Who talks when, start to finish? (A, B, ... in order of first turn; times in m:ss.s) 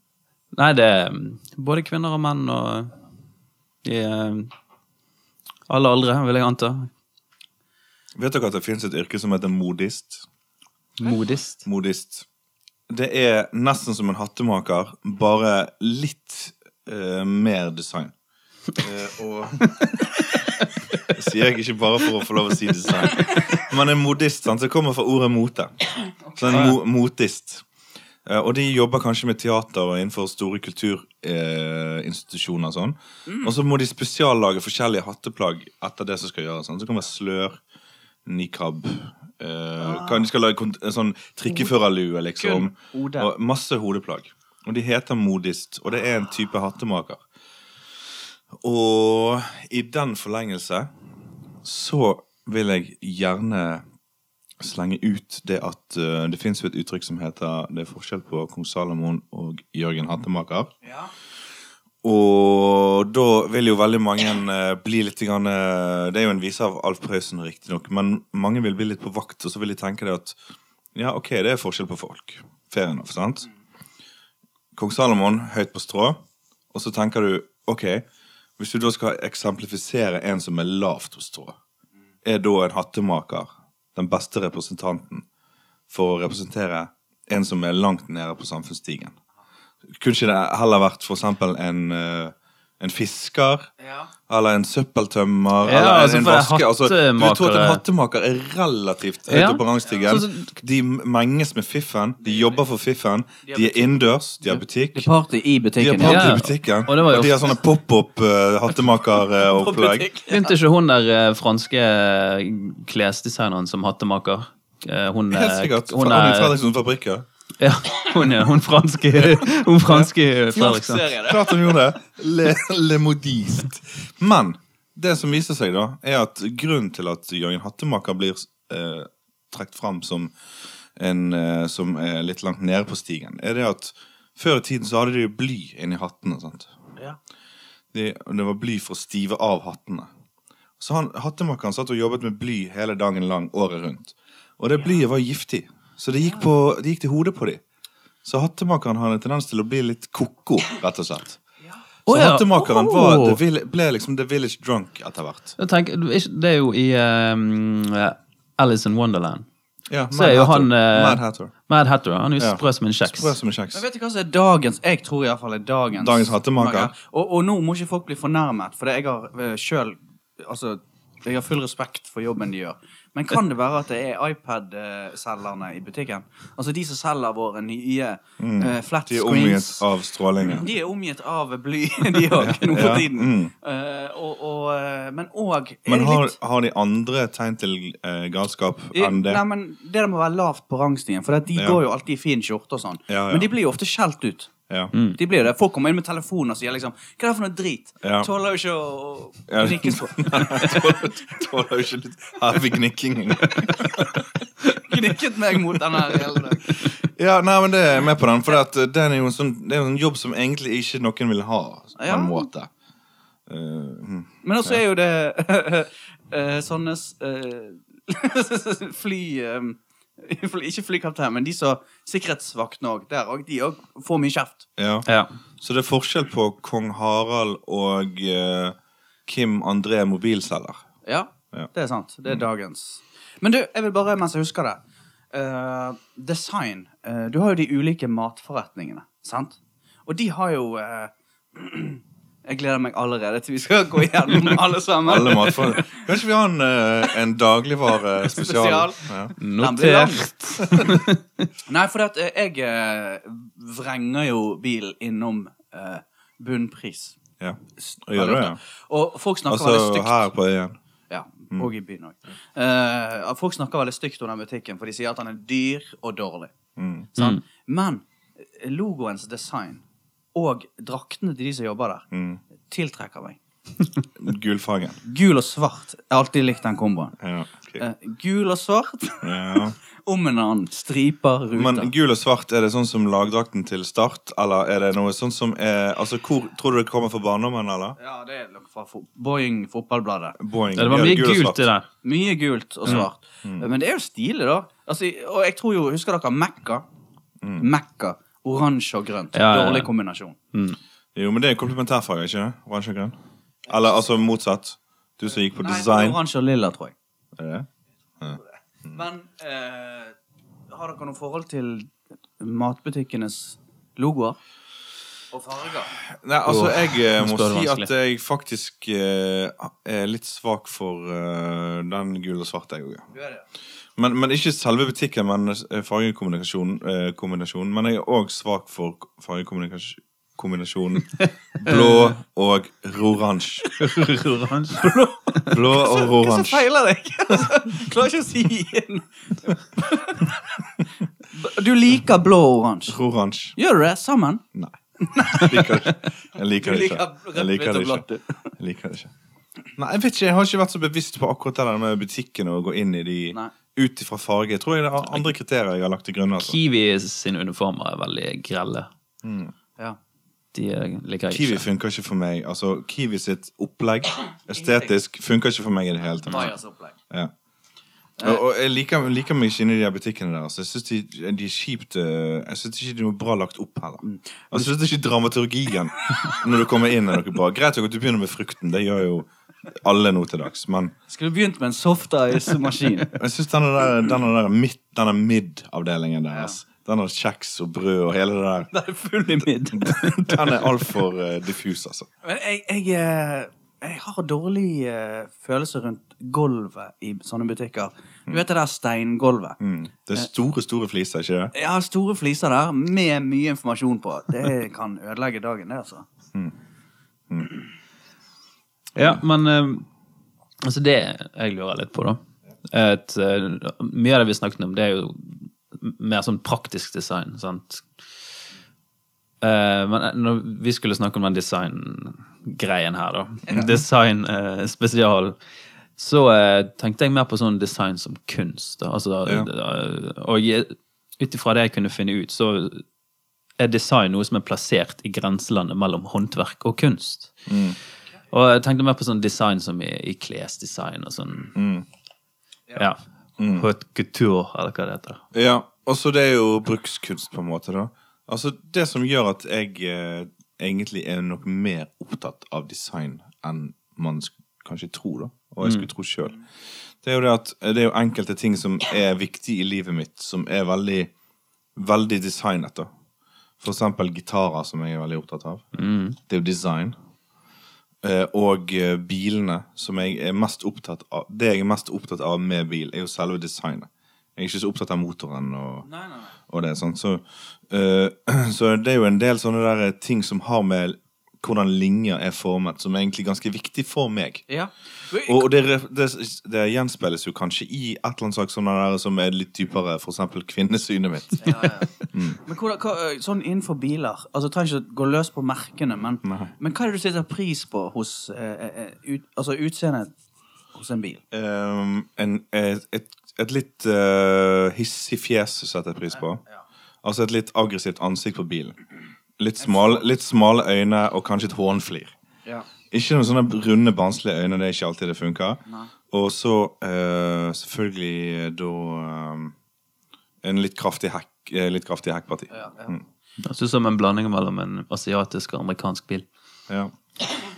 0:00.5-0:02.9 A
0:03.8-0:04.5 A
0:05.7-0:06.9 A
0:08.2-0:10.2 B
0:11.0-0:11.6 A
0:11.6-0:12.2 B
0:12.9-0:18.1 B
0:18.8-0:19.8 B
0:21.1-0:25.7 B
0:26.2-0:26.7 C
0:26.3-0:27.6 B
0:28.2-0:37.6 B
0:33.3-0:33.5 C
0:38.2-0:47.2 B
0:39.8-0:40.3 C
0:42.4-0:43.3 C
0:48.5-0:50.9 B
0:51.6-0:53.8 B
0:54.6-1:00.7 B
1:00.8-1:01.1 C
1:02.0-1:10.4 B
1:10.9-1:13.5 B
1:14.7-1:16.2 B
1:16.7-1:18.0 B
1:18.6-1:21.6 B
1:22.2-1:25.2 B
1:25.9-1:29.1 B
1:29.9-1:33.7 B
1:33.8-1:34.1 C
1:34.3-1:45.1 B
1:35.6-1:37.8 A
1:39.3-1:40.5 A
1:42.2-1:42.6 C
1:43.4-1:46.4 C
1:45.8-1:50.1 B
1:46.0-1:47.5 A
1:49.3-1:50.5 C
1:50.3-1:56.5 A
1:55.3-1:57.2 B
1:57.6-2:01.1 A
1:59.2-2:00.1 B
2:00.5-2:01.6 C
2:01.2-2:10.3 B
2:11.0-2:16.7 B
2:17.9-2:20.1 B
2:20.8-2:27.6 B
2:28.2-2:31.4 B
2:32.1-2:33.4 A
2:32.1-2:35.6 B
2:35.6-2:39.5 A
2:39.9-2:41.5 B
2:40.1-2:43.4 A
2:42.4-2:43.8 B
2:43.7-2:59.8 C
2:46.0-2:46.9 B
2:58.4-3:00.7 B
3:00.4-3:06.4 C
3:02.3-3:03.5 B
3:05.9-3:09.4 B
3:08.9-3:14.5 C
3:11.5-3:11.8 B
3:13.1-3:13.5 B
3:14.7-3:14.9 B
3:15.1-3:21.5 C
3:18.0-3:18.3 B
3:19.5-3:24.2 B
3:23.7-3:26.9 C
3:25.5-3:32.7 B
3:32.0-3:32.5 C
3:33.5-3:34.8 B
3:34.4-3:44.7 C
3:44.8-3:45.1 B
3:45.0-3:45.3 A
3:45.6-3:50.8 B
3:51.0-3:54.8 C
3:55.3-4:06.0 C
4:05.0-4:09.3 B
4:08.2-4:10.3 C
4:09.4-4:11.5 A
4:10.6-4:10.9 B
4:11.7-4:17.2 C
4:17.4-4:18.6 B
4:17.8-4:20.3 C
4:19.5-4:20.8 B
4:21.1-4:26.5 C
4:26.8-4:27.1 B
4:27.1-4:29.8 C
4:30.3-4:32.0 C
4:32.1-4:32.4 B
4:32.6-4:33.4 C
4:34.2-4:35.0 B
4:35.0-4:37.2 C
4:37.2-4:37.8 B
4:37.8-4:41.9 C
4:39.2-4:39.8 B
4:41.5-4:48.0 B
4:48.0-4:50.4 C
4:50.4-4:51.7 B
4:50.7-4:51.8 A
4:52.0-4:56.8 C
4:52.8-4:53.6 B
4:57.4-4:57.7 B
4:57.6-5:00.4 C
4:59.3-4:59.9 A
5:01.1-5:03.2 B
5:03.7-5:06.2 B
5:05.6-5:06.9 C
5:07.4-5:07.7 B
5:08.2-5:09.0 B
5:08.9-5:10.2 C
5:10.7-5:14.4 C
5:15.3-5:16.0 C
5:16.1-5:23.0 B
5:16.4-5:17.9 A
5:23.1-5:23.4 C
5:24.0-5:33.7 B
5:31.2-5:32.1 A
5:33.8-5:35.6 A
5:34.7-5:40.6 C
5:35.5-5:36.6 B
5:41.3-5:43.0 C
5:42.9-5:43.6 B
5:43.6-5:44.4 C
5:44.5-5:48.0 B
5:45.0-5:45.9 C
5:46.5-5:48.5 C
5:48.6-5:49.1 B
5:49.8-5:56.6 B
5:56.4-5:58.9 A
5:59.2-5:59.5 B
6:00.5-6:01.6 A
6:01.3-6:06.5 B
6:04.5-6:04.9 C
6:06.2-6:07.0 C
6:08.2-6:20.9 B
6:14.0-6:14.7 C
6:21.1-6:23.1 C
6:23.1-6:28.7 B
6:26.3-6:26.6 C
6:28.7-6:30.7 C
6:29.7-6:32.1 B
6:32.2-6:39.6 C
6:39.6-6:41.5 B
6:41.5-6:46.0 C
6:48.9-6:49.8 A
6:49.0-6:49.2 B
6:50.6-6:57.8 A
6:59.4-7:05.4 A
7:03.5-7:03.8 B
7:06.0-7:12.8 A
7:13.6-7:17.4 A
7:17.5-7:17.8 B
7:18.3-7:21.5 A
7:21.5-7:21.8 B
7:22.8-7:25.2 A
7:23.4-7:23.7 B
7:25.3-7:36.4 B
7:35.6-7:35.9 A
7:37.0-7:41.1 B
7:41.8-7:42.9 B
7:43.6-7:45.7 B
7:45.7-7:46.2 A
7:46.3-7:46.9 B
7:48.0-7:55.8 B
7:55.8-7:56.3 C
7:56.5-8:04.4 B
8:04.5-8:05.5 C
8:05.2-8:12.4 B
8:11.4-8:20.1 C
8:16.2-8:16.5 B
8:20.7-8:21.2 C
8:21.3-8:26.4 B
8:27.0-8:28.8 B
8:29.4-8:32.1 B
8:29.6-8:30.1 C
8:32.9-8:39.5 B
8:40.4-8:43.0 B
8:42.5-8:43.0 C
8:43.4-8:46.2 A